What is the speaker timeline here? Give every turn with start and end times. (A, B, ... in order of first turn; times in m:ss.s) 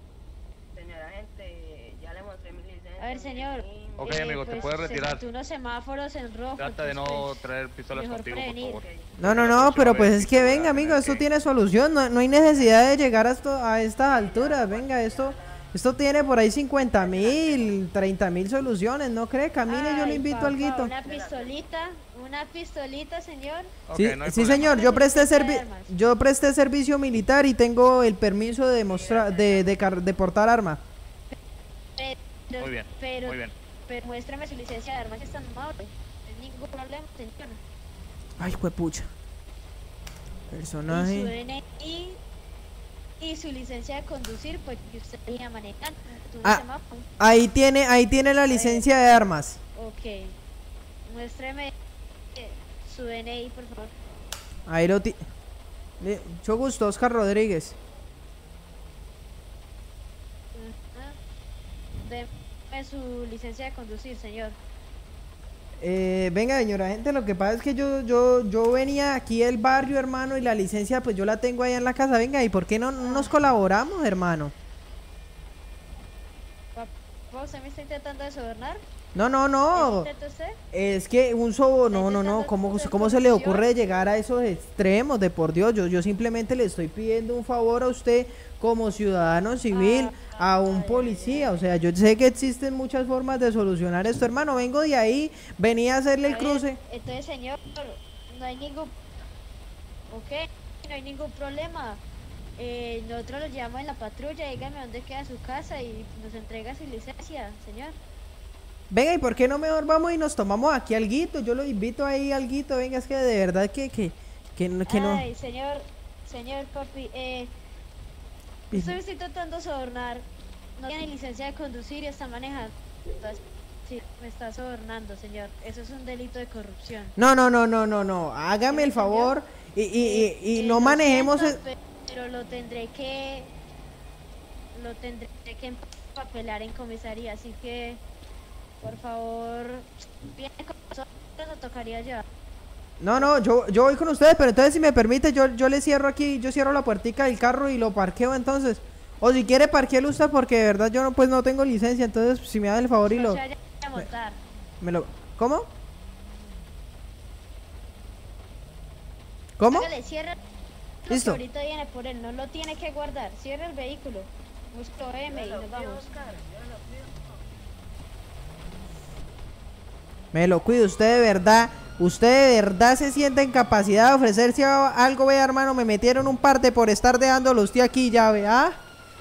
0:00.7-0:04.9 A
0:03.0-0:07.4 B
0:04.0-0:05.2 C
0:06.6-0:11.2 C
0:07.9-0:08.8 B
0:08.8-0:09.1 A
0:09.2-0:20.9 D
0:14.0-0:17.8 A
0:19.7-0:23.7 B
0:21.0-0:21.6 A
0:23.9-0:24.8 C
0:23.9-0:30.8 D
0:24.6-0:25.9 B
0:28.9-0:29.8 A
0:32.0-0:37.6 B
0:32.6-0:33.5 C
0:38.4-0:39.1 D
0:40.5-0:41.3 D
0:40.9-0:42.2 B
0:43.2-0:47.1 B
0:47.2-0:49.6 D
0:48.5-0:48.8 B
0:49.8-0:50.4 B
0:51.1-0:51.7 B
0:52.4-0:53.9 B
0:54.7-0:55.2 D
0:56.0-0:57.8 D
1:00.5-1:01.2 B
1:02.0-1:04.6 B
1:05.8-1:14.5 D
1:13.0-1:13.3 B
1:16.8-1:18.8 B
1:19.2-1:20.1 D
1:19.7-1:20.6 B
1:20.7-1:36.8 D
1:21.9-1:23.7 B
1:29.7-1:31.5 B
1:36.2-1:38.9 B
1:40.1-1:42.0 B
1:42.6-1:48.0 B
1:48.9-1:55.2 D
1:54.9-1:57.5 B
1:58.7-1:59.0 D
1:58.7-2:00.3 B
2:00.8-2:07.2 B
2:07.2-2:11.6 D
2:08.7-2:09.3 B
2:10.0-2:13.5 B
2:14.7-2:18.0 B
2:18.8-2:22.3 B
2:23.0-2:33.4 D
2:33.0-2:34.4 B
2:34.8-2:35.7 D
2:39.6-2:39.9 D
2:39.7-2:40.4 B
2:41.0-2:46.1 B
2:41.1-2:41.4 D
2:45.3-2:47.5 A
2:50.3-2:58.8 D